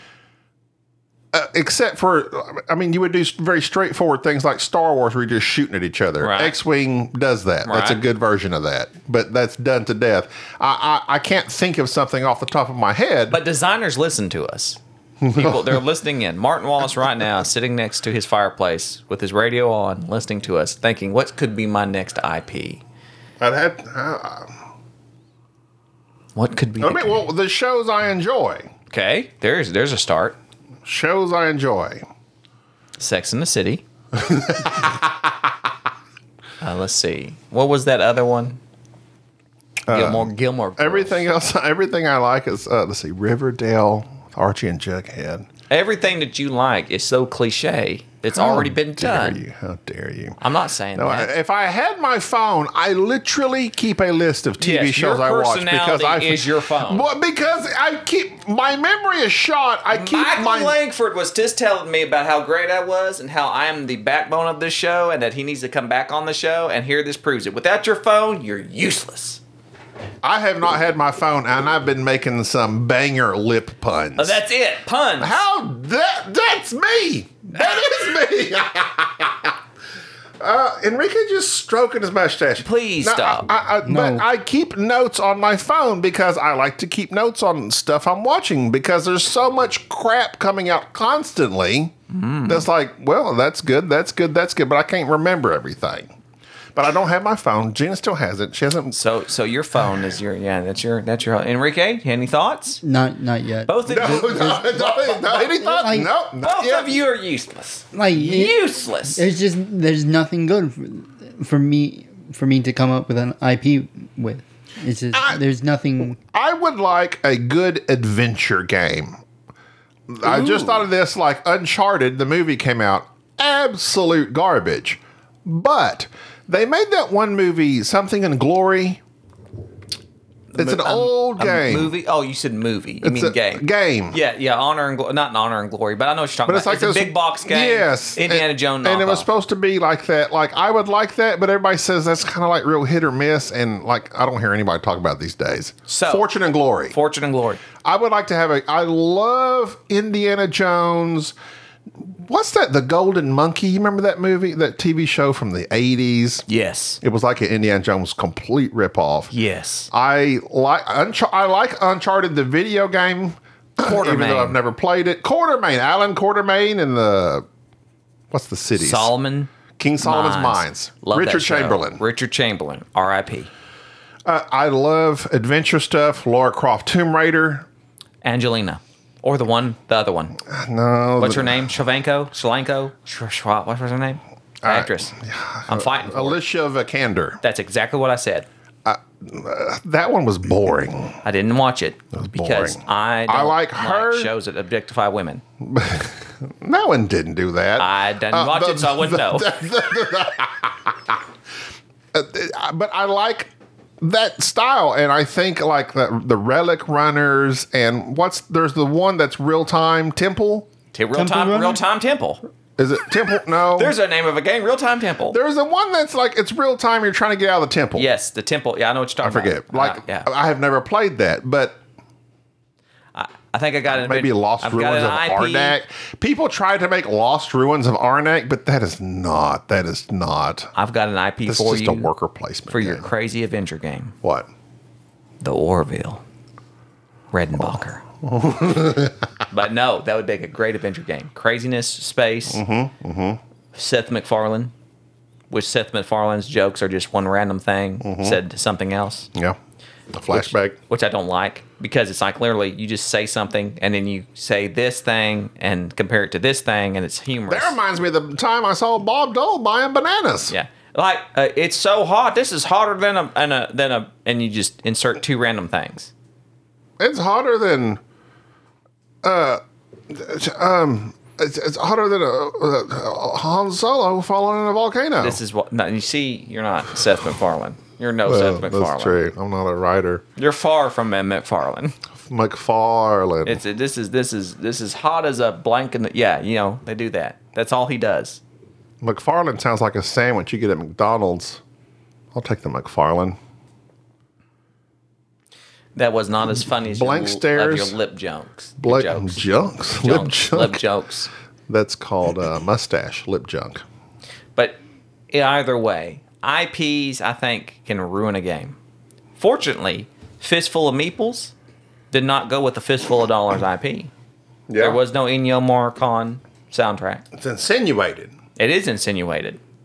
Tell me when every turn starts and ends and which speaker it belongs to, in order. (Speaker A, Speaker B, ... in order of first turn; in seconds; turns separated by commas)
Speaker A: 1.3-13.4, Speaker B: 6.2-6.6, Speaker B: 7.7-8.0, Speaker B: 13.3-14.8, Speaker A: 15.2-15.8, Speaker B: 15.3-22.8, Speaker A: 23.4-24.5, Speaker B: 26.4-27.2, Speaker A: 26.8-28.7, Speaker B: 28.9-30.4, Speaker A: 30.9-32.0, Speaker B: 33.0-33.8, Speaker A: 34.1-35.3, Speaker B: 36.6-38.6, Speaker A: 39.9-45.5, Speaker B: 39.9-41.3, Speaker B: 45.7-49.4, Speaker A: 48.3-50.4, Speaker B: 50.4-51.3, Speaker A: 51.0-60.8, Speaker B: 54.6-57.1, Speaker B: 59.9-69.4, Speaker A: 70.2-74.4, Speaker B: 74.2-75.4, Speaker A: 75.2-79.6, Speaker A: 80.4-92.0, Speaker B: 82.6-83.5, Speaker C: 83.8-84.2, Speaker B: 92.1-92.7, Speaker A: 92.5-96.1, Speaker A: 96.8-99.0, Speaker B: 98.9-102.8, Speaker C: 102.8-104.8, Speaker B: 103.7-105.6, Speaker A: 103.9-107.0, Speaker C: 105.7-106.1, Speaker B: 106.4-109.2, Speaker C: 107.9-116.2, Speaker A: 115.1-115.4, Speaker A: 116.2-119.2, Speaker A: 120.1-129.0, Speaker B: 120.2-120.9, Speaker B: 130.5-139.3, Speaker A: 130.6-131.9, Speaker A: 133.0-134.2, Speaker A: 136.5-147.0, Speaker B: 145.9-146.3, Speaker B: 146.9-147.6, Speaker A: 147.8-151.3, Speaker A: 152.0-156.5, Speaker B: 156.5-157.0, Speaker A: 157.0-159.3, Speaker B: 159.3-159.9, Speaker A: 159.9-167.5, Speaker B: 163.8-164.6, Speaker A: 168.3-169.1, Speaker B: 168.8-169.5, Speaker A: 169.8-172.0, Speaker B: 170.0-173.5, Speaker A: 174.3-177.7, Speaker B: 178.2-180.4, Speaker A: 180.4-181.8, Speaker B: 181.2-185.2, Speaker A: 184.6-187.4, Speaker B: 185.7-186.4, Speaker B: 187.4-188.5, Speaker A: 188.8-191.2, Speaker B: 191.2-195.4, Speaker A: 192.1-194.3, Speaker A: 195.6-201.2, Speaker B: 197.8-199.5, Speaker A: 202.1-203.5, Speaker A: 204.0-210.7, Speaker B: 210.9-212.4, Speaker C: 211.1-211.8, Speaker A: 212.8-213.9, Speaker B: 213.8-215.4, Speaker A: 215.3-218.1, Speaker B: 217.9-220.3, Speaker A: 219.2-221.8, Speaker B: 223.1-225.8, Speaker A: 223.9-230.7, Speaker B: 230.8-232.1, Speaker A: 231.5-233.1, Speaker B: 232.7-234.2, Speaker A: 234.2-234.5, Speaker B: 235.4-236.2, Speaker B: 237.3-238.0, Speaker A: 238.2-239.2, Speaker B: 239.5-242.6, Speaker A: 242.5-243.4, Speaker B: 243.7-244.7, Speaker B: 245.5-249.3, Speaker A: 248.0-248.4, Speaker A: 250.1-250.8, Speaker B: 250.3-257.8, Speaker A: 257.5-260.5, Speaker B: 260.5-266.1, Speaker A: 267.0-268.0, Speaker A: 269.2-275.4, Speaker B: 275.2-279.2, Speaker A: 278.2-280.2, Speaker B: 280.4-282.0, Speaker A: 282.2-283.6, Speaker B: 283.4-288.4, Speaker A: 289.0-291.6, Speaker A: 292.3-293.4, Speaker B: 295.9-301.3, Speaker A: 296.7-298.0, Speaker A: 298.8-300.8, Speaker A: 301.7-303.8, Speaker B: 305.3-308.8, Speaker B: 309.4-311.5, Speaker B: 312.1-314.1, Speaker A: 314.7-315.0, Speaker B: 314.8-317.2, Speaker A: 317.3-318.4, Speaker B: 318.6-319.6